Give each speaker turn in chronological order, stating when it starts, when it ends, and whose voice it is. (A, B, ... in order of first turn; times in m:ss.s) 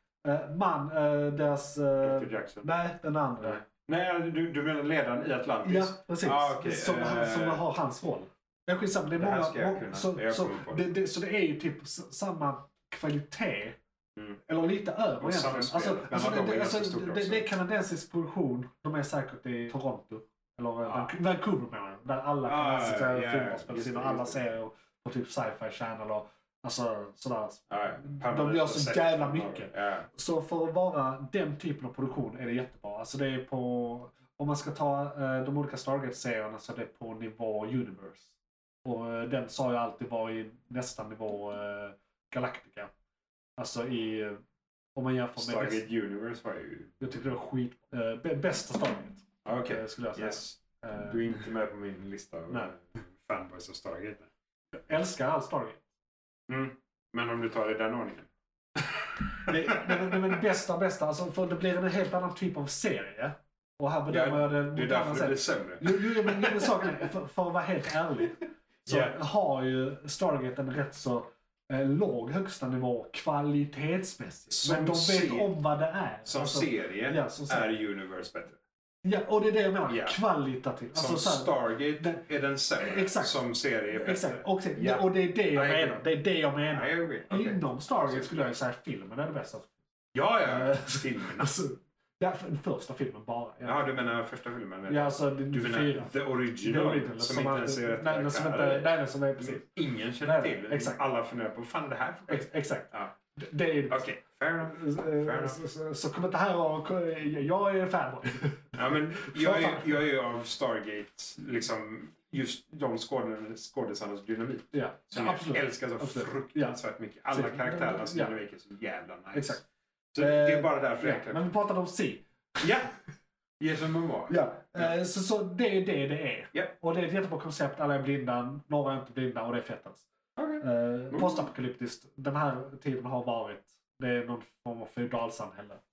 0:00.2-0:03.6 A
0:02.0-0:02.7 B
0:03.4-0:07.6 B
0:05.6-0:13.8 A
0:09.2-0:10.9 B
0:14.5-0:38.3 A
0:15.2-0:17.5 B
0:20.8-0:21.1 B
0:22.4-0:24.4 B
0:27.7-0:30.1 B
0:38.8-0:42.9 A
0:43.6-0:44.4 A
0:45.0-0:45.8 A
0:45.4-0:47.0 B
0:47.0-0:51.3 A
0:49.4-0:54.3 B
0:54.9-0:55.8 A
0:56.5-1:00.4 B
0:59.5-1:17.7 A
1:04.1-1:06.9 B
1:08.9-1:09.2 B
1:14.5-1:15.5 B
1:16.3-1:18.6 B
1:19.0-1:22.2 A
1:19.9-1:20.2 B
1:20.9-1:26.0 B
1:22.8-1:29.7 A
1:26.7-1:28.5 B
1:30.1-1:31.5 B
1:30.4-1:33.9 A
1:33.6-1:43.1 B
1:34.9-1:39.6 A
1:40.2-1:41.0 A
1:42.3-1:44.0 A
1:43.9-1:45.6 B
1:44.6-1:50.0 A
1:48.7-1:59.6 B
1:54.7-1:56.8 A
1:57.3-1:58.3 A
1:59.3-1:59.6 A
2:00.1-2:01.4 B
2:00.2-2:02.6 A
2:02.6-2:02.9 B
2:03.6-2:04.9 B
2:04.3-2:10.1 A
2:10.4-2:11.5 B
2:10.6-2:15.8 A